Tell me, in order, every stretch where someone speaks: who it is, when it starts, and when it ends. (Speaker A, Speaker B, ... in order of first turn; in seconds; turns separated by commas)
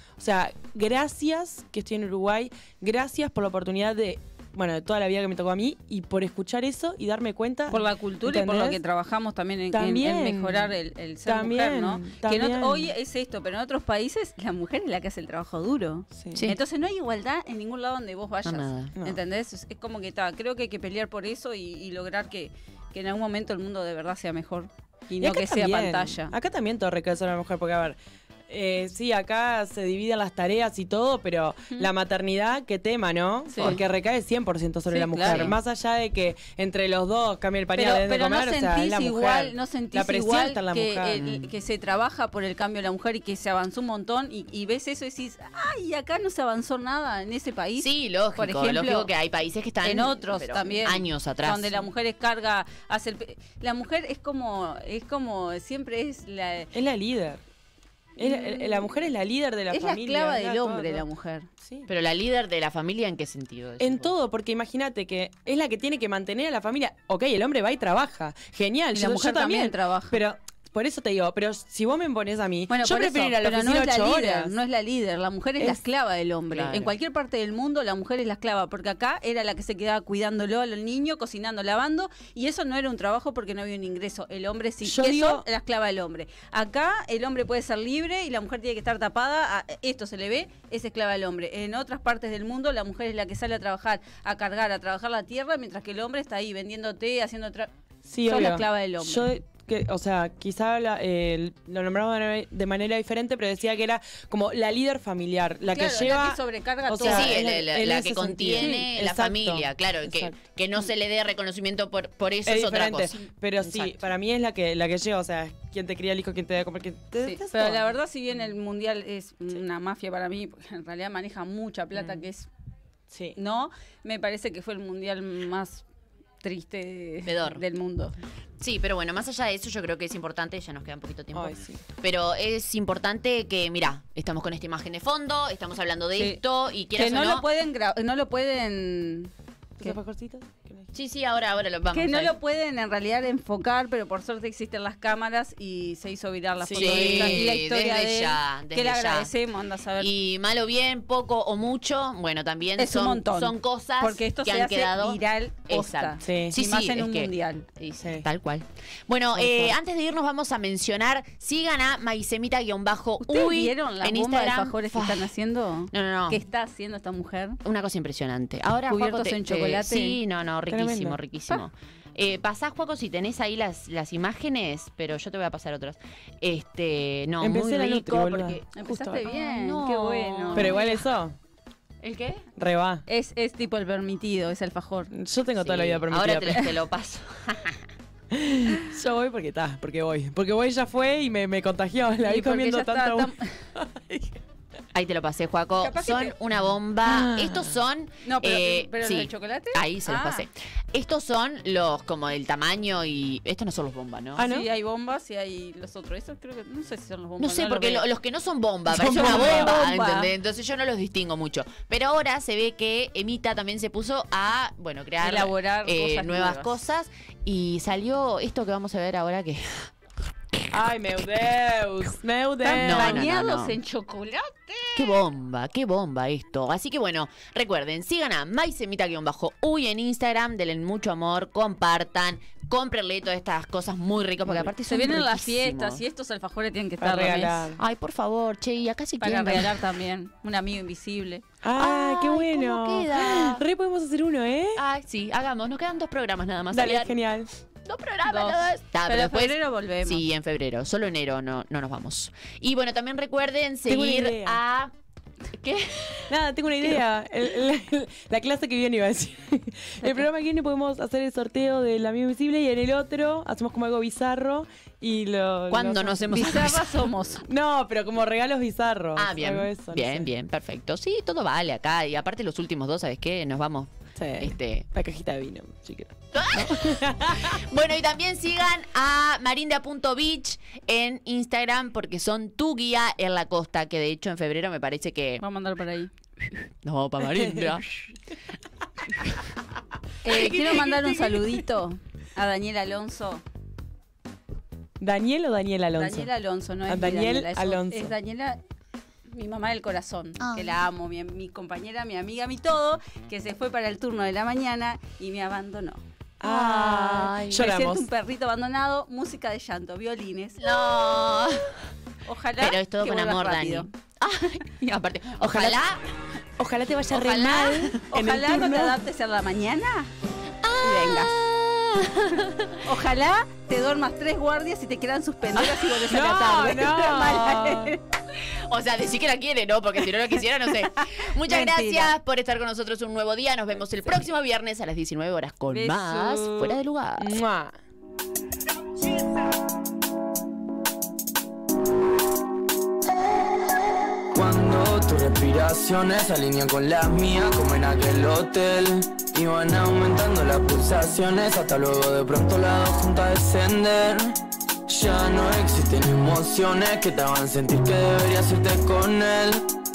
Speaker A: 0.2-8.8, Speaker B: 7.7-26.3, Speaker A: 9.7-10.7, Speaker A: 11.2-12.9, Speaker A: 16.1-16.4, Speaker C: 18.4-18.9, Speaker A: 25.2-41.4, Speaker B: 33.5-33.8, Speaker B: 34.9-35.5, Speaker C: 35.2-35.5, Speaker B: 37.7-49.1, Speaker C: 47.8-51.7, Speaker B: 49.8-56.7, Speaker A: 56.7-57.4, Speaker B: 58.2-59.0, Speaker A: 58.2-61.0, Speaker B: 59.7-61.5, Speaker A: 61.6-61.9, Speaker C: 61.9-64.1, Speaker A: 63.8-74.5, Speaker B: 68.9-70.2, Speaker B: 72.7-97.7, Speaker C: 76.5-76.9, Speaker A: 84.8-85.5, Speaker A: 98.0-110.3, Speaker B: 98.2-99.3, Speaker B: 105.7-107.3, Speaker C: 107.0-114.0, Speaker B: 108.6-108.9, Speaker A: 112.5-117.9, Speaker B: 117.2-122.5, Speaker A: 122.0-122.3, Speaker A: 123.1-123.4, Speaker B: 123.4-125.8, Speaker B: 126.4-128.1, Speaker C: 127.2-127.6, Speaker C: 128.6-137.4, Speaker A: 131.3-131.8, Speaker B: 136.9-140.0, Speaker A: 139.8-140.9, Speaker C: 140.9-142.3, Speaker B: 141.9-150.1, Speaker C: 146.7-149.3, Speaker A: 146.7-147.5, Speaker C: 150.0-165.3, Speaker B: 152.8-157.7, Speaker A: 156.2-156.5, Speaker A: 159.3-159.7, Speaker B: 163.2-167.6, Speaker C: 165.9-166.4, Speaker C: 167.6-178.7, Speaker B: 168.9-170.2, Speaker A: 170.7-171.2, Speaker A: 177.4-179.2, Speaker B: 178.7-181.0, Speaker C: 179.2-180.8, Speaker A: 180.5-181.3, Speaker C: 182.0-182.4, Speaker A: 182.6-183.0, Speaker B: 183.1-185.1, Speaker A: 185.1-186.7, Speaker C: 185.6-187.8, Speaker A: 188.3-194.4, Speaker B: 192.2-193.5, Speaker C: 194.9-204.4, Speaker B: 195.8-196.3, Speaker A: 197.0-197.8, Speaker B: 198.2-200.4, Speaker A: 204.4-204.7, Speaker B: 204.4-208.1, Speaker C: 207.4-219.9, Speaker A: 208.9-209.8, Speaker B: 209.0-210.3, Speaker B: 215.2-216.8, Speaker A: 220.7-223.3, Speaker B: 222.6-225.2, Speaker C: 222.8-223.8, Speaker C: 224.9-236.0, Speaker B: 234.6-237.7, Speaker A: 237.0-237.8, Speaker C: 237.8-239.8, Speaker B: 239.2-241.4, Speaker A: 241.6-244.8, Speaker C: 241.8-243.6, Speaker C: 244.8-247.1, Speaker A: 246.7-247.5, Speaker C: 247.8-254.9, Speaker B: 248.3-250.2, Speaker A: 253.9-254.6, Speaker C: 255.5-256.3, Speaker A: 256.3-266.5, Speaker C: 265.7-267.0, Speaker B: 266.3-267.5, Speaker A: 267.4-270.3, Speaker C: 269.1-274.9, Speaker A: 274.1-277.6, Speaker C: 276.3-285.4, Speaker B: 285.4-286.1, Speaker C: 286.8-288.1, Speaker A: 287.3-287.7, Speaker B: 290.2-293.4, Speaker C: 290.2-291.6, Speaker A: 295.0-296.3, Speaker B: 296.0-298.6, Speaker A: 296.9-298.1, Speaker B: 299.3-306.0, Speaker C: 300.4-300.8, Speaker A: 306.4-308.1, Speaker C: 306.4-307.7, Speaker B: 307.5-310.6, Speaker C: 310.6-311.7, Speaker B: 312.2-313.9, Speaker C: 312.6-316.0, Speaker A: 315.4-315.8, Speaker A: 316.6-319.0, Speaker C: 317.1-318.0, Speaker B: 318.1-320.1, Speaker C: 320.6-322.8, Speaker B: 320.8-321.5, Speaker B: 322.7-328.0, Speaker A: 326.0-328.0, Speaker C: 328.4-337.4, Speaker B: 330.6-332.1, Speaker B: 335.7-336.8, Speaker A: 337.2-337.7, Speaker D: 344.3-359.6